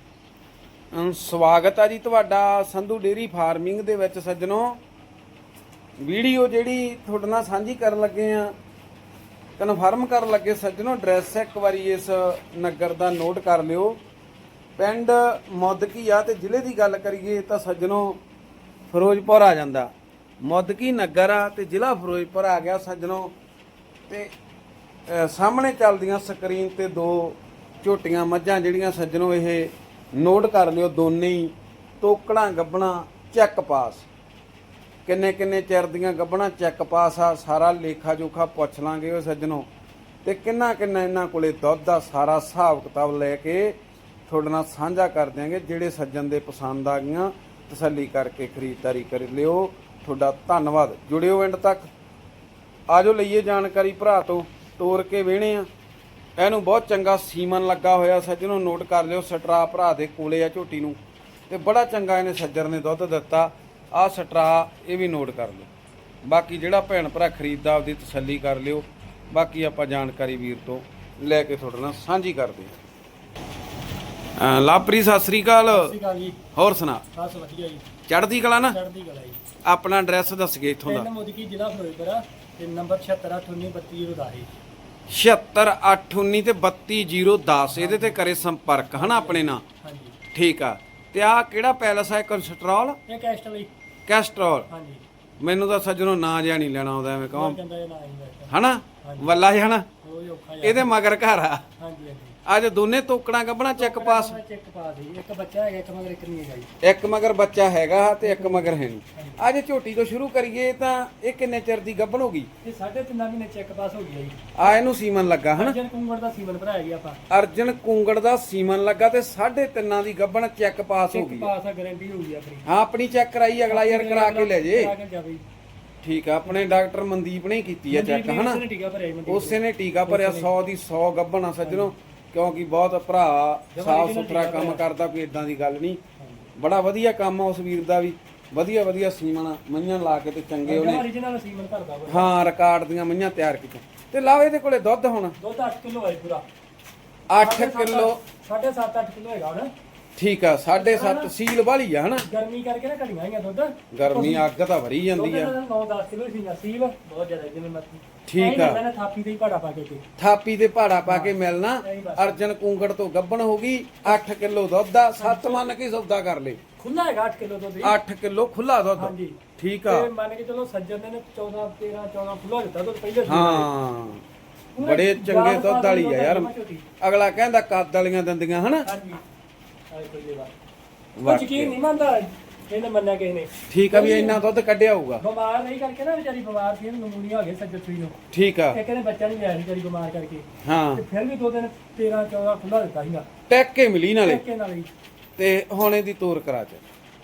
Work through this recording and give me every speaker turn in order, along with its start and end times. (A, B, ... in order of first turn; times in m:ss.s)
0:00.9-0:04.8 A
0:06.0-0:08.5 A
0:09.6-0:14.0 A
0:14.8-0:18.2 A
0:18.9-0:19.9 A
0:20.4-0:23.3 A
0:25.1-0:34.0 A
0:35.0-0:39.7 A
0:40.2-0:43.8 A
0:44.3-0:51.8 A
0:52.9-0:55.7 A
0:56.4-1:01.0 A
1:01.5-1:05.7 A
1:06.2-1:12.7 A
1:14.4-1:15.9 A
1:15.7-1:16.4 B
1:16.5-1:17.0 A
1:17.1-1:17.9 B
1:18.1-1:18.8 A
1:18.6-1:19.4 B
1:19.6-1:21.1 A
1:20.8-1:24.5 B
1:25.1-1:29.6 A
1:27.7-1:28.2 B
1:28.9-1:30.2 B
1:30.3-1:33.0 A
1:33.1-1:33.7 B
1:34.1-1:34.7 A
1:34.7-1:35.0 B
1:35.4-1:37.6 A
1:37.3-1:39.4 B
1:38.5-1:39.9 A
1:40.0-1:40.9 B
1:40.6-1:41.6 A
1:41.8-1:42.4 B
1:42.4-1:44.4 A
1:43.8-1:46.7 B
1:46.8-1:52.5 A
1:48.2-1:49.4 B
1:52.6-1:54.8 B
1:54.6-1:55.8 A
1:55.5-1:57.2 B
1:57.3-2:01.5 A
2:01.1-2:02.6 B
2:02.6-2:04.9 A
2:03.7-2:05.4 B
2:06.0-2:08.6 A
2:07.9-2:10.5 B
2:09.3-2:16.0 A
2:11.6-2:11.9 B
2:13.7-2:14.8 B
2:16.2-2:16.5 B
2:16.6-2:21.0 A
2:20.6-2:22.3 B
2:22.1-2:25.4 A
2:25.4-2:26.4 B
2:27.3-2:28.2 A
2:27.4-2:29.7 B
2:30.2-2:32.2 A
2:30.7-2:31.3 B
2:32.2-2:34.4 B
2:33.9-2:35.5 A
2:35.1-2:40.0 B
2:38.3-2:38.8 A
2:40.2-2:46.6 A
2:41.1-2:42.4 B
2:45.2-2:45.7 B
2:46.8-2:48.0 B
2:47.8-2:50.1 A
2:49.0-2:53.7 B
2:53.2-2:54.2 A
2:54.8-2:56.8 B
2:54.8-2:56.5 A
2:57.0-2:58.9 A
2:58.8-2:59.2 B
2:59.9-3:00.5 B
3:01.2-3:01.7 A
3:01.2-3:04.4 B
3:03.7-3:05.2 A
3:05.2-3:08.1 B
3:08.3-3:08.8 A
3:08.7-3:13.2 B
3:10.6-3:11.0 A
3:13.5-3:14.4 A
3:14.2-3:14.9 B
3:15.4-3:16.8 A